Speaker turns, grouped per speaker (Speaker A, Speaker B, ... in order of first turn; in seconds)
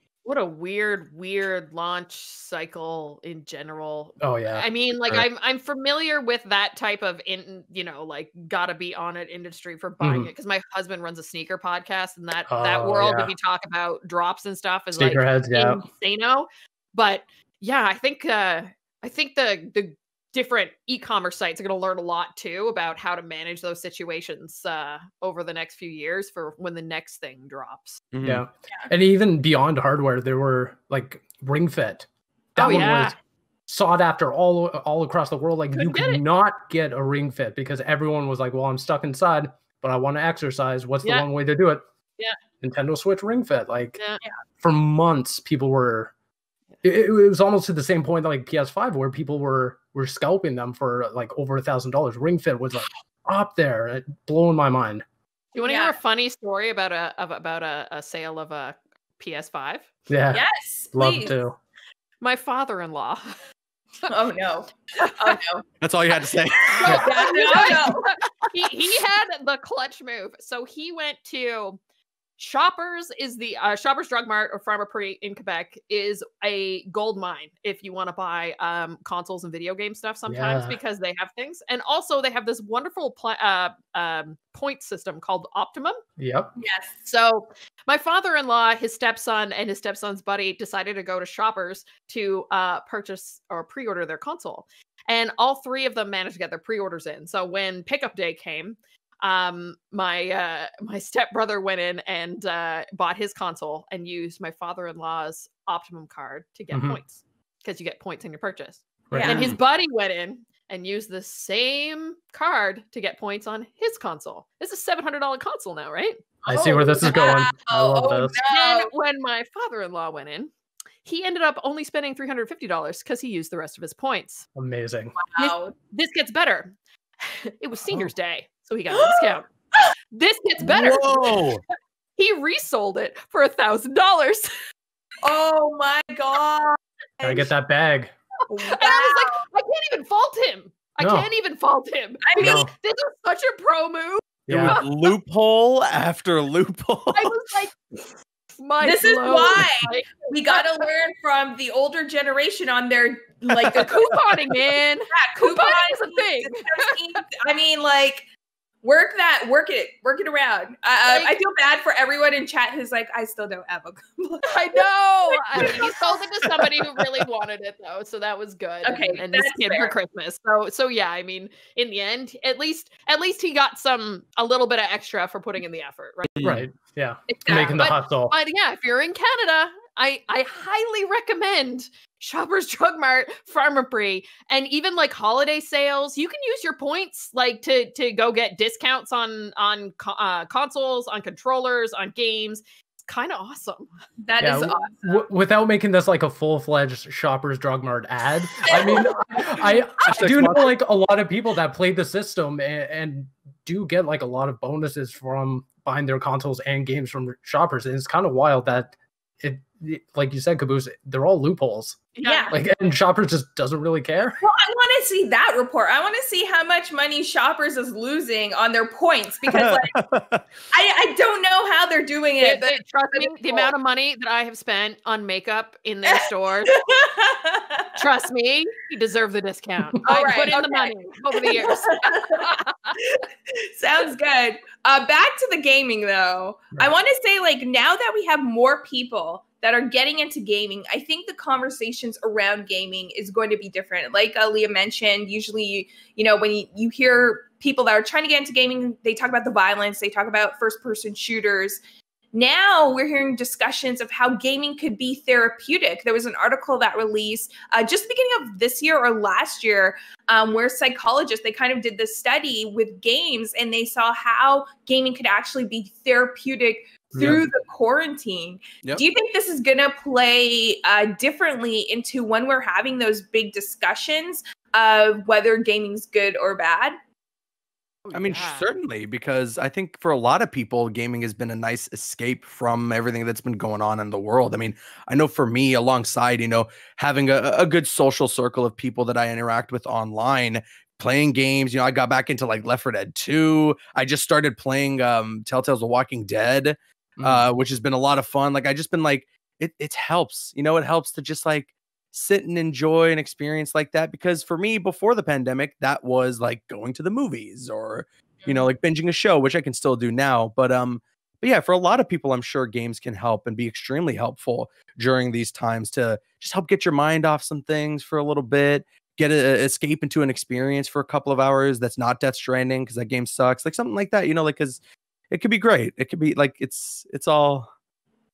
Speaker A: 0.2-28.0, 32.6-33.2, 35.7-36.2, 55.5-59.9, 62.2-63.4, 65.0-65.4, 66.7-71.8, 72.4-86.0, 87.0-116.2, 117.0-117.5, 118.5-120.5, 121.0-124.5, 125.4-126.8, 127.5-129.5, 130.1-131.4, 132.2-134.5, 138.6-145.1, 147.1-148.1, 148.6-150.9, 153.7-157.0, 161.1-161.4, 164.5-176.6, 177.5-193.9, 212.2-212.6, 222.4-226.8, 228.0-232.9, 278.1-278.7
Speaker B: 4.2-5.3, 10.0-10.3, 12.5-13.3, 14.9-15.8, 28.2-41.8, 42.6-44.0, 44.6-46.1, 46.8-55.0, 60.1-60.4, 60.9-61.6, 80.3-80.8, 86.2-86.5, 106.7-107.0, 109.1-109.4, 116.5-118.4, 124.6-125.1, 137.2-138.1, 141.0-141.3, 142.4-142.7, 144.5-144.8, 176.4-178.3, 194.4-214.4, 267.1-267.4, 297.2-297.5
Speaker C: 28.1-28.4, 65.8-66.8, 130.7-131.6, 144.5-147.3, 176.4-176.6, 200.1-200.7, 219.5-220.4, 278.1-327.7
Speaker D: 55.6-56.0, 60.3-61.4, 64.1-65.7, 66.5-68.0, 86.6-87.0, 109.1-109.5, 116.4-118.9, 125.2-125.7, 128.9-129.4, 135.2-137.5, 138.5-139.4, 142.2-142.6, 148.8-154.0, 155.1-158.3, 158.8-166.2, 168.8-169.9, 177.3-177.7, 194.2-195.3, 198.7-199.8, 212.2-212.5, 214.4-219.9, 220.7-223.7, 226.1-228.0, 230.0-232.5, 233.8-251.8, 252.3-276.9, 308.4-308.7